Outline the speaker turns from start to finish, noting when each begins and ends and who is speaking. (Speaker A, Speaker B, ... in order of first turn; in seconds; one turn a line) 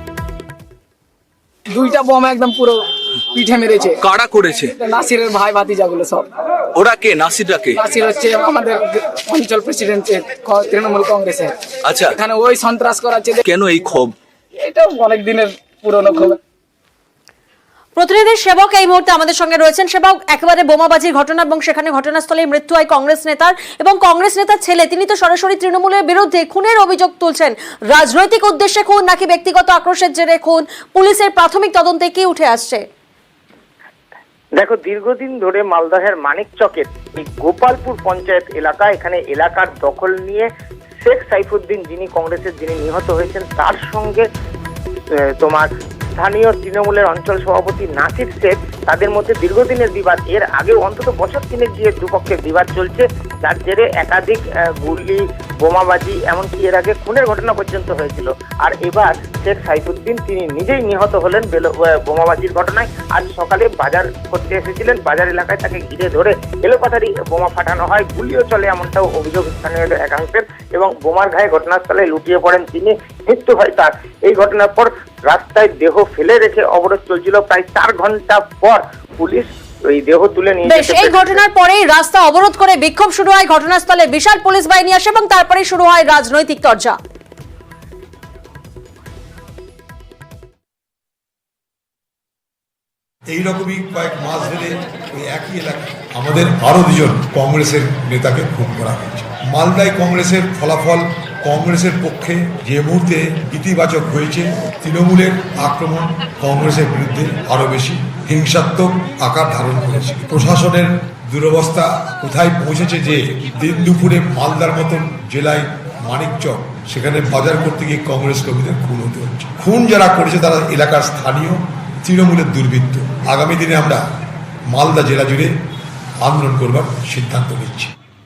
Speaker A: 1.7-4.0
Speaker B: 4.0-4.7
Speaker A: 4.8-6.3
Speaker B: 6.7-7.8
Speaker A: 7.7-13.4
Speaker B: 11.8-12.1
Speaker B: 13.5-14.2
Speaker A: 14.6-16.4
Speaker C: 17.9-32.8
Speaker D: 34.6-40.5
Speaker D: 41.1-44.2
Speaker D: 45.4-45.7
Speaker D: 46.2-81.2
Speaker C: 80.6-87.0
Speaker E: 93.3-124.0
Speaker E: 124.7-125.5
Speaker E: 126.2-127.9